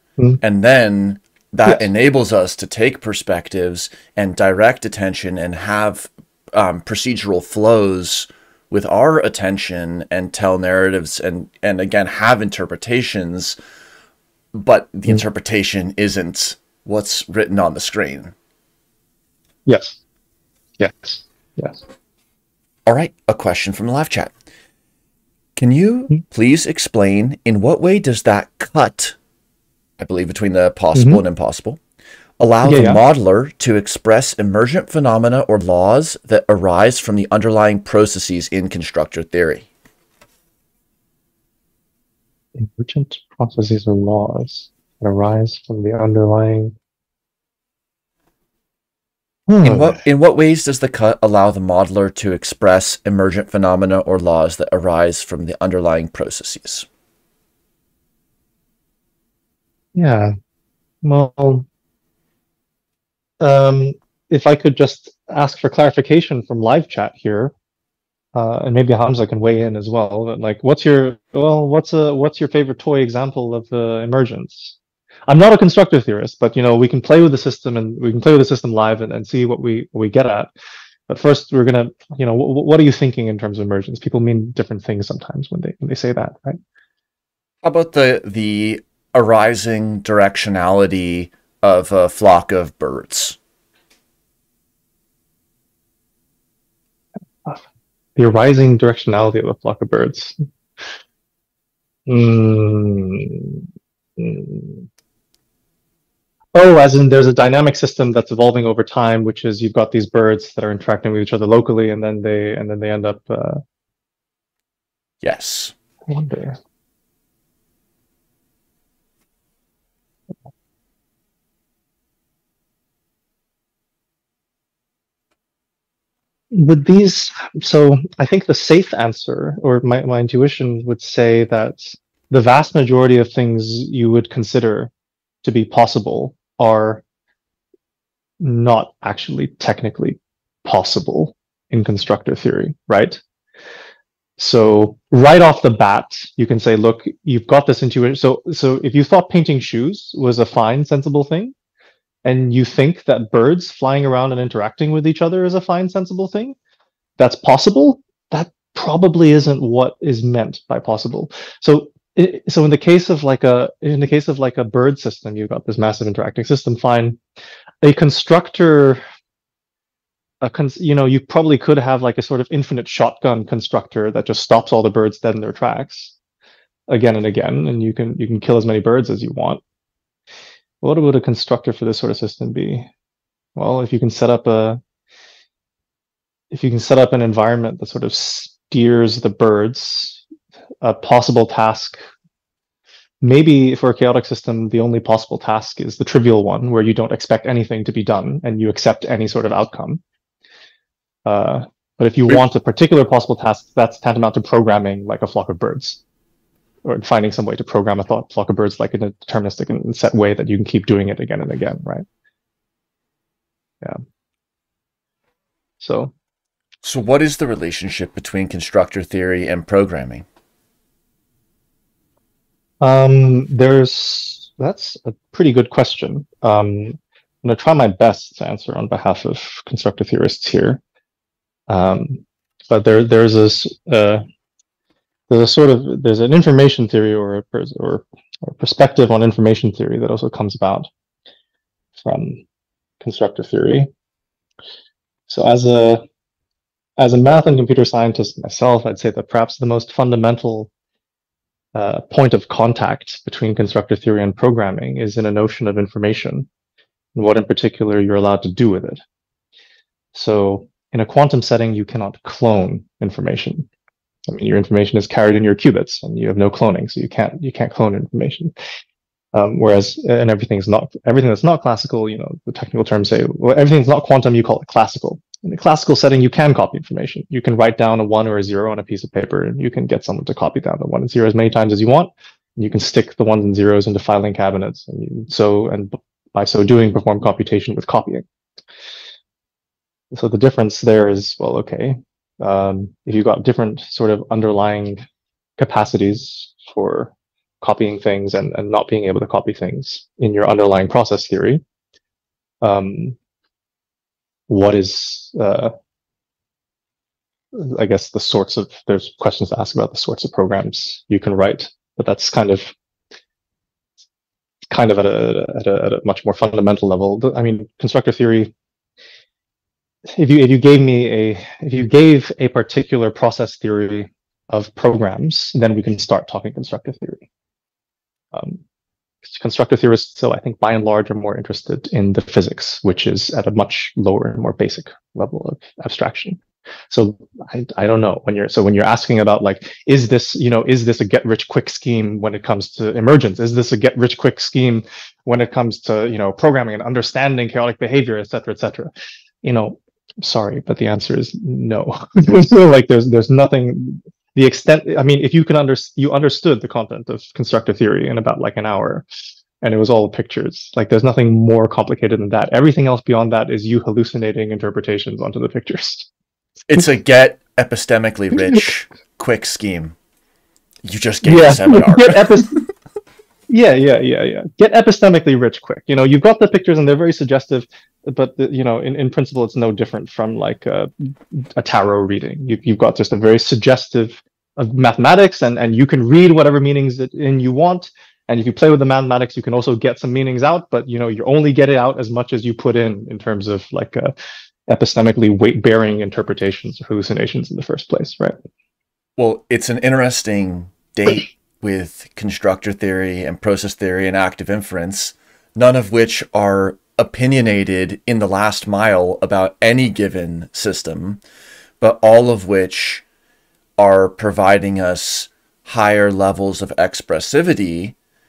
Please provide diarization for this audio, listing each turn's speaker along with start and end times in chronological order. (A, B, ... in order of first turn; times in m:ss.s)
0:00.4-0:13.6 A
0:14.5-0:18.3 A
0:19.6-0:20.0 B
0:20.8-0:21.8 B
0:22.8-0:24.3 A
0:25.6-0:29.2 A
0:30.0-0:31.8 A
0:30.9-0:31.2 B
0:32.4-0:39.6 A
0:32.6-0:33.0 B
0:42.6-0:46.7 B
0:49.5-0:50.0 B
0:49.6-0:56.9 A
0:59.9-1:00.3 B
1:01.0-1:01.6 B
1:03.4-1:07.5 B
1:08.3-1:14.7 B
1:15.3-1:20.5 B
1:21.1-1:26.6 B
1:27.6-1:33.4 A
1:38.2-1:40.4 B
1:42.1-1:43.6 B
1:44.2-1:44.9 B
1:46.5-1:53.6 B
1:55.2-1:55.7 A
1:56.1-1:56.6 B
2:06.5-2:14.9 B
2:15.4-2:17.0 B
2:18.4-2:23.2 B
2:24.4-2:31.5 B
2:32.2-2:36.5 B
2:37.2-2:47.2 B
2:47.8-2:49.0 B
2:50.4-2:56.1 B
2:56.9-2:59.6 B
3:00.8-3:02.9 B
3:03.6-3:04.8 B
3:06.5-3:10.2 B
3:10.8-3:12.0 B
3:13.2-3:20.0 B
3:21.2-3:26.0 B
3:26.8-3:32.0 B
3:35.8-3:36.1 B
3:36.8-3:40.2 A
3:42.8-3:50.8 B
3:51.7-3:54.2 B
3:55.3-4:00.9 B
4:02.0-4:02.4 B
4:03.0-4:03.9 B
4:05.3-4:06.0 B
4:07.0-4:10.7 B
4:11.7-4:16.5 B
4:17.1-4:19.0 B
4:20.1-4:23.7 B
4:24.3-4:28.5 B
4:29.3-4:48.2 B
4:50.1-4:55.0 B
4:55.6-5:01.6 B
5:02.6-5:03.2 B
5:04.5-5:05.7 B
5:07.5-5:12.7 B
5:14.7-5:18.5 B
5:20.1-5:27.2 B
5:28.3-5:28.6 B
5:29.2-5:48.9 B
5:49.4-5:59.0 B
5:59.6-6:06.1 B
6:06.7-6:10.0 A
6:10.8-6:12.6 A
6:11.2-6:12.5 B
6:13.5-6:34.1 B
6:34.7-6:38.4 B
6:39.2-6:51.2 A
6:51.8-6:53.0 A
6:53.8-6:57.9 A